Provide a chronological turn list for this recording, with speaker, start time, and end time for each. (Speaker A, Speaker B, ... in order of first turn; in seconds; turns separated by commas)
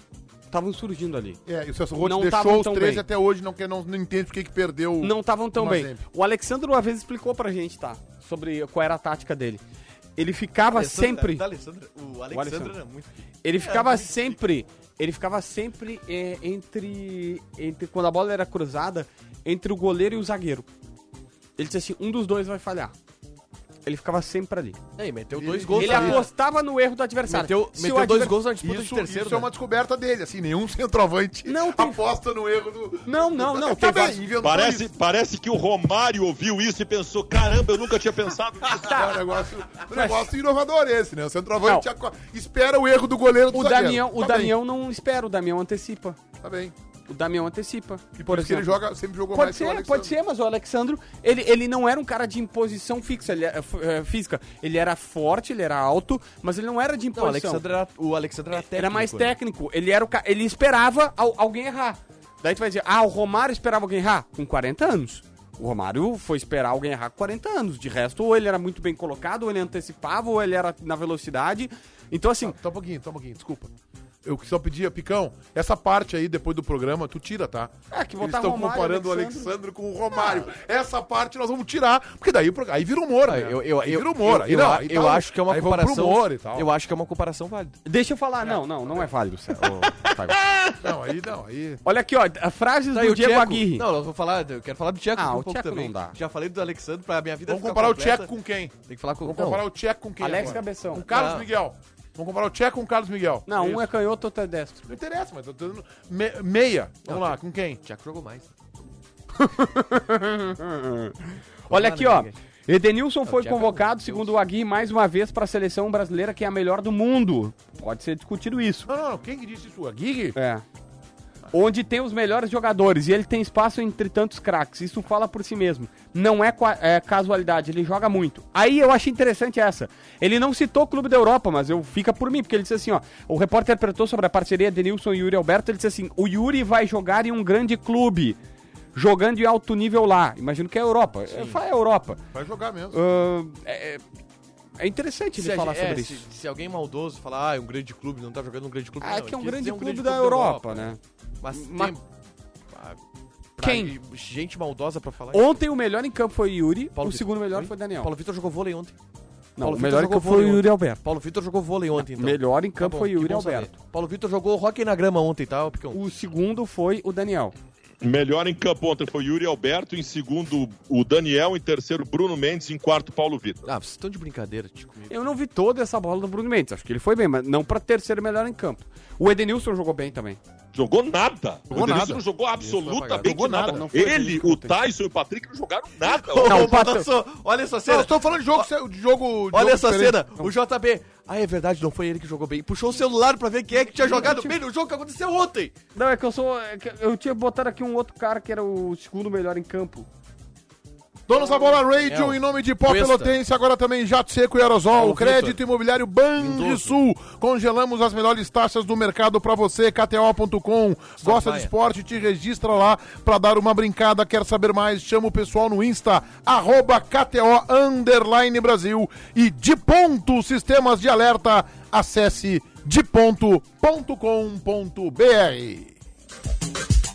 Speaker A: 0.5-1.4, Speaker B: 1.4-6.0, Speaker A: 2.0-3.0, Speaker A: 5.0-9.6, Speaker A: 10.2-11.4, Speaker C: 10.7-14.4, Speaker A: 12.3-12.7, Speaker A: 13.4-20.7, Speaker A: 21.6-22.9, Speaker A: 23.9-24.8, Speaker C: 25.0-26.3, Speaker B: 25.3-26.3, Speaker A: 25.7-28.4, Speaker C: 27.3-29.5, Speaker B: 28.6-34.9, Speaker A: 31.4-32.0, Speaker A: 33.0-34.2, Speaker D: 34.4-39.1, Speaker B: 38.7-44.6, Speaker A: 39.9-40.2, Speaker A: 43.5-46.2, Speaker B: 46.4-46.7, Speaker A: 47.1-48.7, Speaker B: 48.2-50.1, Speaker A: 49.3-57.6, Speaker C: 57.1-59.3, Speaker A: 58.5-72.6, Speaker B: 72.4-73.7, Speaker B: 74.2-86.7, Speaker A: 77.9-79.5, Speaker C: 83.2-87.8, Speaker A: 87.8-90.4, Speaker B: 90.8-91.8, Speaker A: 91.8-93.9, Speaker C: 92.9-98.3, Speaker A: 95.2-96.2, Speaker B: 97.5-103.8, Speaker C: 98.9-99.6, Speaker A: 100.2-101.0, Speaker C: 100.2-101.5, Speaker A: 103.5-104.8, Speaker B: 104.9-107.8, Speaker C: 107.0-108.5, Speaker A: 109.4-118.9, Speaker C: 111.7-112.4, Speaker C: 113.3-114.3, Speaker B: 118.9-120.3, Speaker A: 120.3-120.6, Speaker A: 121.5-138.4, Speaker A: 138.9-142.2, Speaker C: 141.3-141.6, Speaker B: 142.3-143.0, Speaker A: 142.9-144.0, Speaker A: 144.8-146.2, Speaker C: 145.3-150.9, Speaker A: 149.0-151.0, Speaker C: 151.4-152.0, Speaker A: 151.5-152.0, Speaker C: 152.7-153.0, Speaker C: 153.6-155.5, Speaker A: 153.6-153.9, Speaker A: 155.3-158.1, Speaker C: 156.9-158.9, Speaker A: 159.6-161.0, Speaker C: 159.6-166.0, Speaker A: 161.9-163.7, Speaker A: 165.9-167.5, Speaker D: 168.0-173.7, Speaker C: 173.7-175.2, Speaker A: 175.1-180.4, Speaker D: 180.7-186.8, Speaker B: 181.7-182.2, Speaker C: 182.6-183.3, Speaker B: 183.2-183.8, Speaker A: 183.5-184.8, Speaker C: 186.1-188.7, Speaker A: 186.4-187.1, Speaker B: 187.8-190.2, Speaker C: 189.5-195.7, Speaker A: 194.0-194.6, Speaker A: 195.9-200.1, Speaker B: 201.3-225.9, Speaker C: 202.1-203.3, Speaker C: 204.9-205.6, Speaker C: 206.4-207.0, Speaker C: 211.2-211.7